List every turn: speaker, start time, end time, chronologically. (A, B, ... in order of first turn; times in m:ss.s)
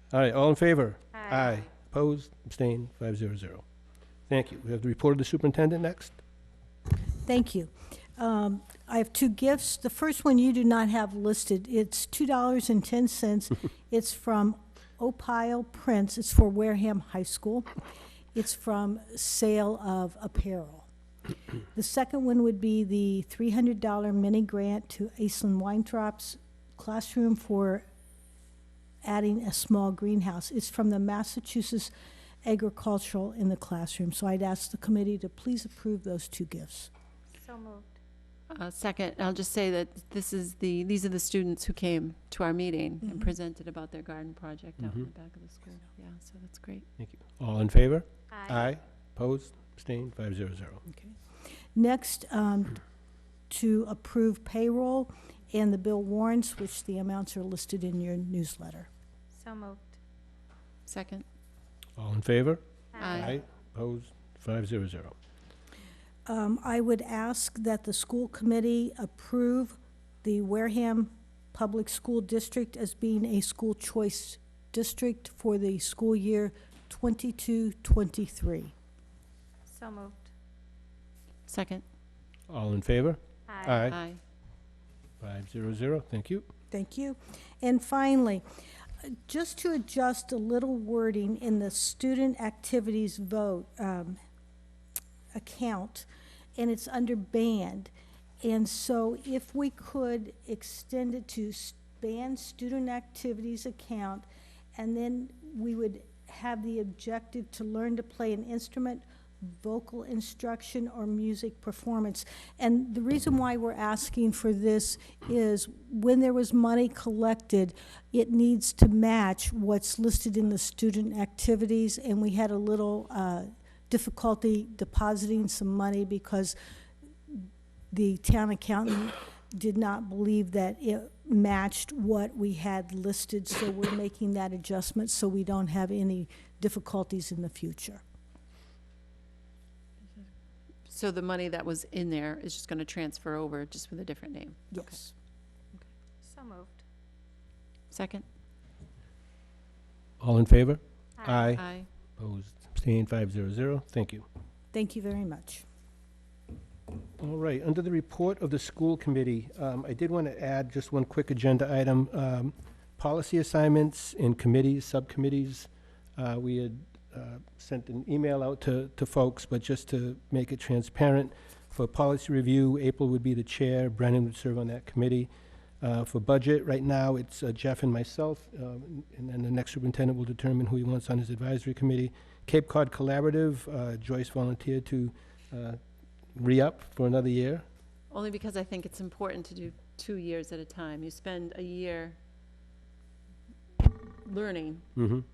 0:00.1-0:03.6 A
0:04.3-0:06.2 A
0:07.2-0:17.7 B
0:18.3-0:20.9 B
0:21.7-0:27.8 B
0:29.0-0:31.9 B
0:32.4-0:36.9 B
0:37.3-0:37.9 C
0:38.5-0:46.9 D
0:43.0-0:43.3 B
0:47.0-0:50.8 A
0:50.9-0:51.2 B
0:51.7-0:52.8 B
0:53.5-0:58.9 B
0:59.3-1:00.0 C
1:00.8-1:01.2 D
1:02.0-1:05.1 A
1:03.0-1:03.4 D
1:06.2-1:18.7 B
1:19.7-1:20.3 C
1:21.5-1:21.8 D
1:22.5-1:24.0 A
1:23.5-1:23.9 C
1:23.9-1:24.2 D
1:25.2-1:26.5 A
1:26.7-1:28.4 B
1:29.0-1:34.2 B
1:35.3-2:06.6 B
2:07.3-2:18.0 B
2:20.8-2:25.0 D
2:24.7-2:25.1 B
2:26.2-2:26.8 C
2:27.9-2:28.2 D
2:30.2-2:31.6 A
2:31.2-2:31.5 C
2:31.5-2:31.9 D
2:32.2-2:34.2 A
2:34.7-2:35.6 B
2:37.2-2:55.3 A
2:55.8-3:05.8 A
3:06.3-3:07.6 A
3:08.1-3:12.2 D
3:13.8-3:14.9 D
3:15.0-3:15.2 A